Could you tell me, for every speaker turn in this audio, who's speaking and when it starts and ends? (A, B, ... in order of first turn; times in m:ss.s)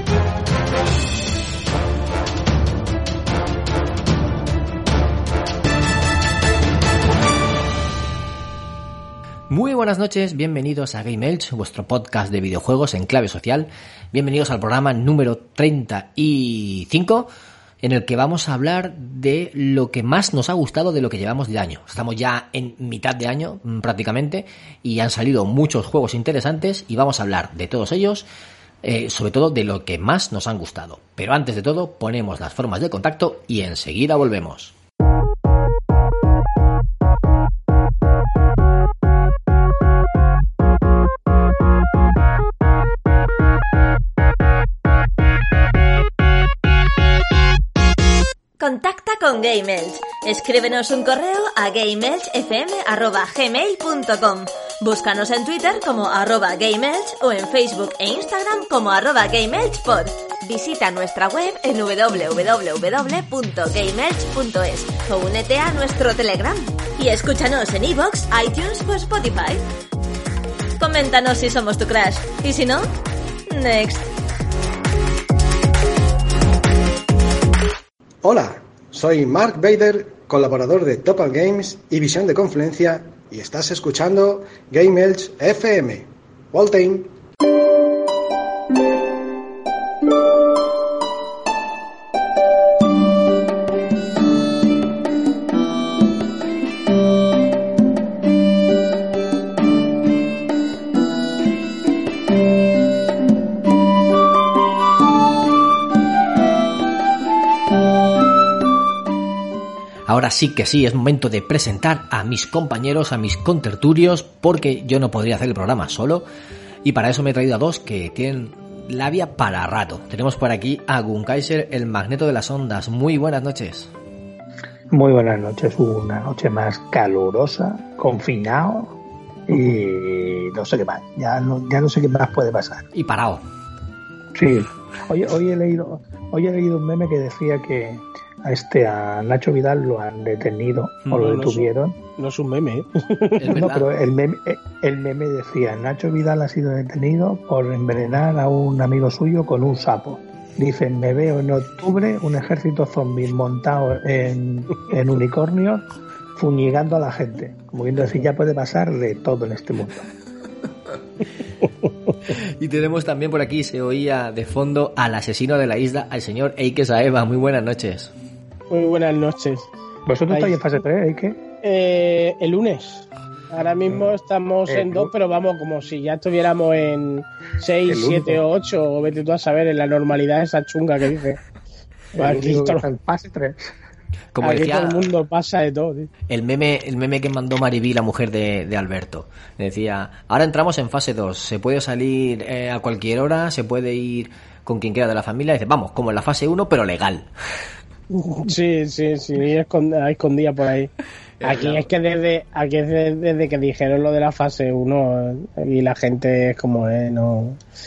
0:09.5-0:17.3 A
0:17.8-0:28.3 A
0:28.8-0:34.7 A
0:48.6-1:09.6 B
1:10.8-1:12.9 B
1:13.5-1:14.1 B
1:18.2-1:27.1 C
1:50.1-1:56.3 A
1:56.8-2:03.9 A
2:04.9-2:09.0 D
2:09.5-2:12.8 D
2:12.9-2:13.4 A
2:14.3-2:22.0 D
2:21.1-2:23.7 E
2:23.4-2:23.9 A
2:23.5-2:35.9 D
2:36.4-2:40.1 D
2:42.3-2:48.1 A
2:48.7-2:49.7 E
2:50.1-2:51.4 D
2:50.3-2:50.6 E
2:51.6-3:01.4 E
2:54.7-2:55.1 D
2:57.9-2:58.4 D
3:02.1-3:03.7 D
3:02.2-3:02.8 E
3:04.4-3:05.1 A
3:04.4-3:06.1 E
3:06.3-3:17.3 A
3:18.1-3:20.9 E
3:21.4-3:21.9 A
3:21.4-3:27.6 E